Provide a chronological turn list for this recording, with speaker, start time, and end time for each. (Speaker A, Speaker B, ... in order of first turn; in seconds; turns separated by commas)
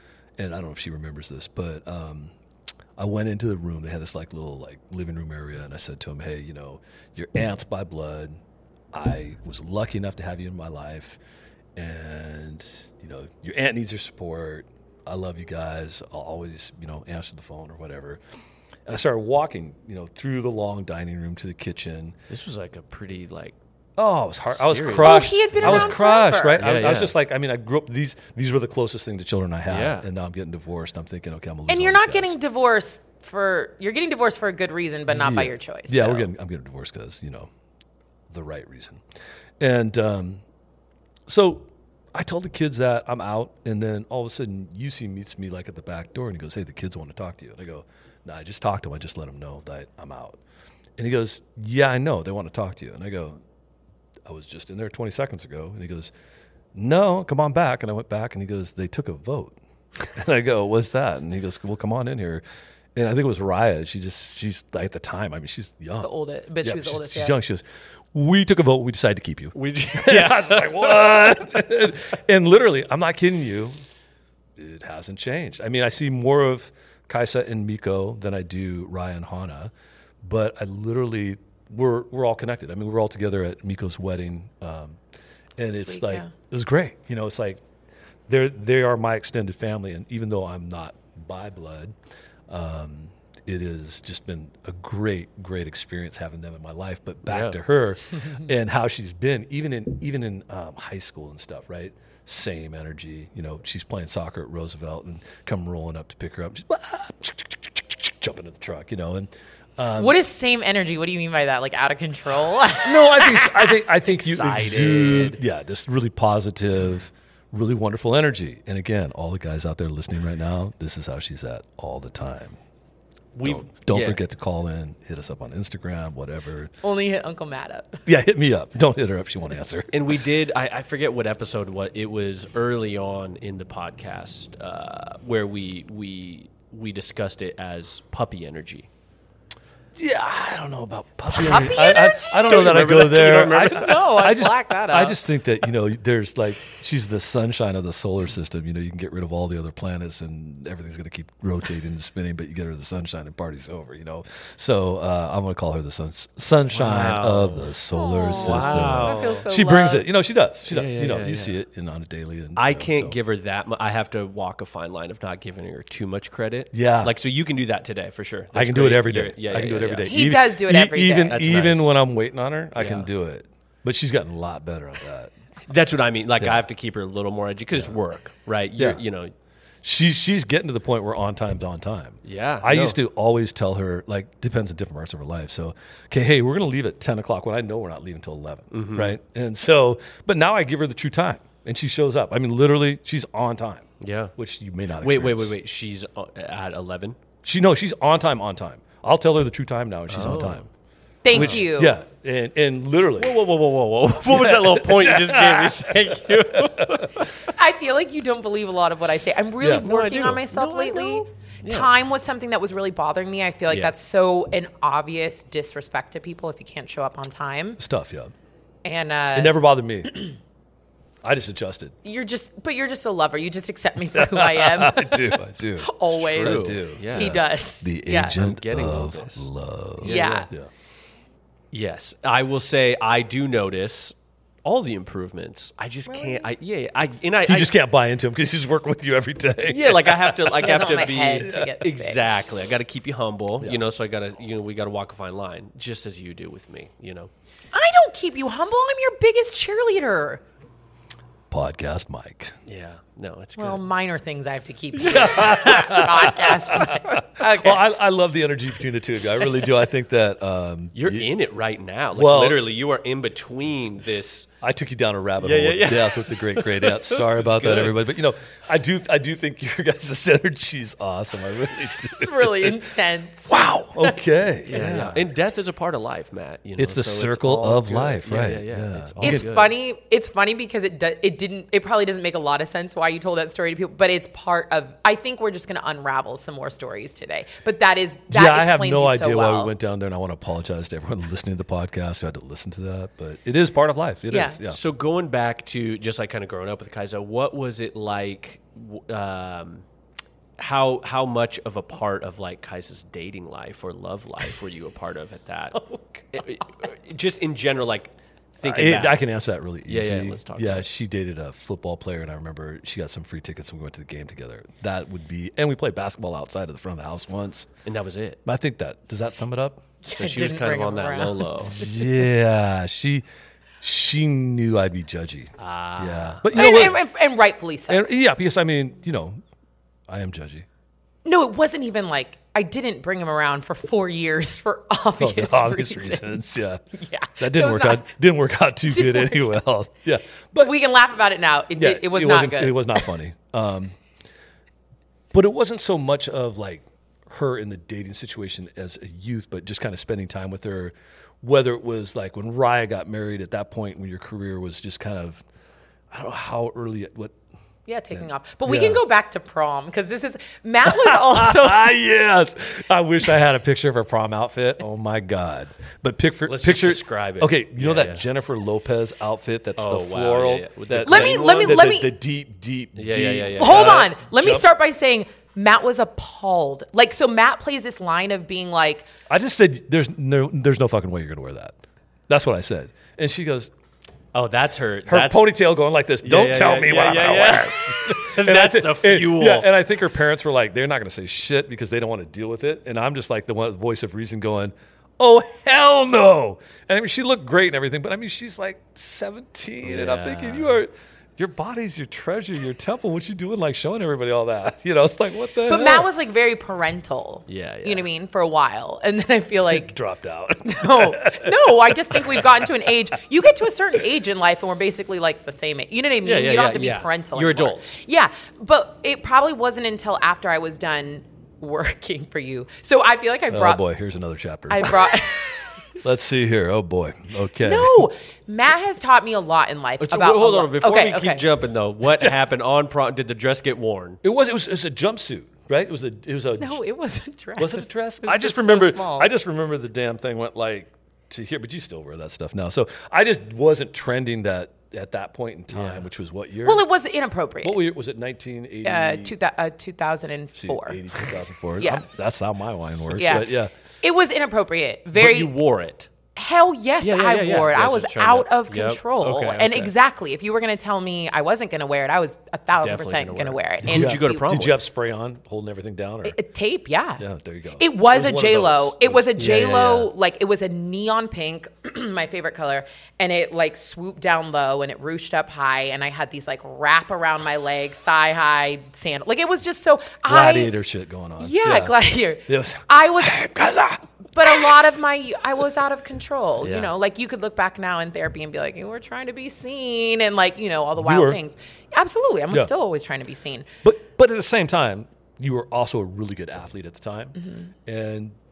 Speaker A: 0.4-2.3, Speaker A: 3.0-8.3, Speaker A: 8.9-11.2, Speaker A: 11.7-18.2, Speaker A: 18.9-22.2, Speaker B: 22.3-23.6, Speaker A: 24.0-32.4, Speaker B: 24.5-26.0, Speaker C: 25.0-26.6, Speaker B: 26.6-27.1, Speaker B: 29.7-30.1, Speaker C: 31.7-36.3, Speaker A: 35.1-37.5, Speaker A: 38.3-39.0, Speaker A: 39.6-40.4, Speaker A: 41.3-50.4, Speaker A: 51.0-53.4, Speaker A: 54.2-56.1, Speaker A: 56.7-59.6, Speaker A: 60.1-62.4, Speaker A: 62.9-66.1, Speaker C: 66.0-67.4, Speaker A: 66.6-73.8, Speaker B: 69.5-71.2, Speaker A: 74.6-79.7, Speaker A: 80.2-85.0, Speaker A: 85.6-87.6, Speaker C: 85.7-86.3, Speaker A: 88.3-91.9, Speaker A: 92.5-110.2, Speaker B: 97.2-97.6, Speaker C: 110.0-113.8, Speaker A: 112.8-122.6, Speaker B: 114.1-115.4, Speaker B: 123.3-124.2, Speaker A: 123.4-126.7, Speaker C: 126.8-128.0, Speaker A: 128.1-130.2, Speaker B: 129.9-138.9, Speaker A: 139.9-163.2, Speaker C: 141.3-142.4, Speaker B: 142.4-145.2, Speaker B: 156.7-157.7, Speaker C: 157.9-160.1, Speaker B: 158.3-159.4, Speaker B: 160.7-161.6, Speaker B: 162.5-170.2, Speaker A: 166.7-167.1, Speaker A: 168.5-175.3, Speaker C: 170.0-171.4, Speaker B: 171.3-171.9, Speaker B: 172.8-173.1, Speaker B: 175.7-179.3, Speaker A: 178.8-179.0, Speaker A: 179.8-195.5, Speaker B: 182.2-183.0, Speaker B: 188.7-189.2, Speaker B: 194.0-194.3, Speaker B: 195.0-197.2, Speaker A: 197.4-200.7, Speaker B: 200.1-200.7, Speaker C: 201.2-201.9, Speaker B: 201.3-201.6, Speaker A: 201.3-203.3, Speaker B: 203.2-207.5, Speaker A: 204.2-207.2, Speaker C: 207.5-217.8, Speaker A: 209.6-209.9, Speaker B: 209.8-211.9, Speaker A: 217.8-218.3, Speaker C: 218.8-219.6, Speaker A: 219.3-220.2, Speaker A: 221.2-221.9, Speaker C: 222.0-228.4, Speaker A: 224.1-230.7, Speaker B: 226.4-227.4, Speaker B: 228.3-229.5, Speaker B: 230.0-230.5, Speaker C: 230.0-230.5, Speaker B: 231.7-237.7, Speaker C: 236.1-236.5, Speaker A: 237.4-240.9, Speaker B: 239.7-247.3, Speaker C: 240.6-242.2, Speaker C: 247.7-250.4, Speaker A: 251.5-252.5, Speaker B: 252.7-253.8, Speaker C: 253.6-257.8, Speaker A: 255.0-261.3, Speaker B: 260.9-264.5, Speaker A: 262.1-262.6, Speaker A: 264.6-272.8, Speaker B: 265.4-268.0, Speaker C: 272.1-274.2, Speaker A: 273.5-275.2, Speaker B: 274.6-279.8, Speaker A: 276.8-279.5, Speaker C: 279.2-289.7, Speaker A: 288.3-294.8, Speaker C: 294.3-294.6, Speaker B: 294.7-299.8, Speaker B: 300.6-309.2, Speaker C: 305.7-306.4, Speaker A: 308.6-317.7, Speaker B: 309.9-310.9, Speaker B: 317.8-318.4, Speaker A: 318.4-319.8, Speaker C: 320.0-322.1, Speaker B: 320.1-321.8, Speaker A: 321.7-323.2, Speaker A: 323.8-327.0, Speaker B: 325.6-326.9, Speaker C: 326.5-328.1, Speaker A: 327.9-329.4, Speaker A: 330.1-330.6, Speaker C: 331.2-338.1, Speaker A: 335.2-336.8, Speaker A: 337.4-340.7, Speaker C: 338.9-339.6, Speaker C: 340.6-343.1, Speaker A: 341.8-344.0, Speaker A: 345.3-355.4, Speaker A: 356.1-357.4, Speaker C: 357.9-361.9, Speaker A: 358.1-359.0, Speaker A: 360.8-374.6, Speaker B: 366.4-368.2, Speaker B: 369.8-371.9, Speaker C: 371.1-372.1, Speaker B: 372.9-374.1, Speaker C: 373.6-379.1, Speaker A: 379.3-381.8, Speaker A: 382.3-383.7, Speaker B: 384.3-385.5, Speaker A: 385.1-406.1, Speaker B: 386.2-389.7, Speaker B: 399.8-400.8, Speaker C: 405.6-409.9, Speaker B: 407.5-408.1, Speaker A: 409.7-412.9, Speaker C: 410.6-423.8, Speaker B: 416.2-418.0, Speaker A: 423.5-425.2, Speaker C: 424.7-425.7, Speaker A: 426.0-428.1, Speaker C: 427.6-431.4, Speaker B: 430.0-434.2, Speaker A: 434.2-436.8, Speaker C: 436.6-439.3, Speaker A: 437.6-446.8, Speaker B: 445.7-446.0, Speaker C: 446.6-447.8, Speaker A: 447.6-449.3, Speaker C: 448.8-451.0, Speaker A: 450.5-453.7, Speaker C: 451.8-452.1, Speaker C: 453.1-455.5, Speaker B: 455.1-456.1, Speaker C: 456.4-464.6, Speaker B: 457.0-459.9, Speaker B: 462.8-464.8, Speaker A: 463.9-466.4, Speaker C: 466.2-467.2, Speaker A: 467.2-469.5, Speaker C: 467.8-480.7, Speaker B: 469.4-470.1, Speaker A: 480.3-484.7, Speaker C: 481.4-483.5, Speaker C: 484.3-493.7, Speaker B: 486.6-486.9, Speaker A: 491.0-491.4, Speaker A: 493.8-498.3, Speaker C: 497.3-497.7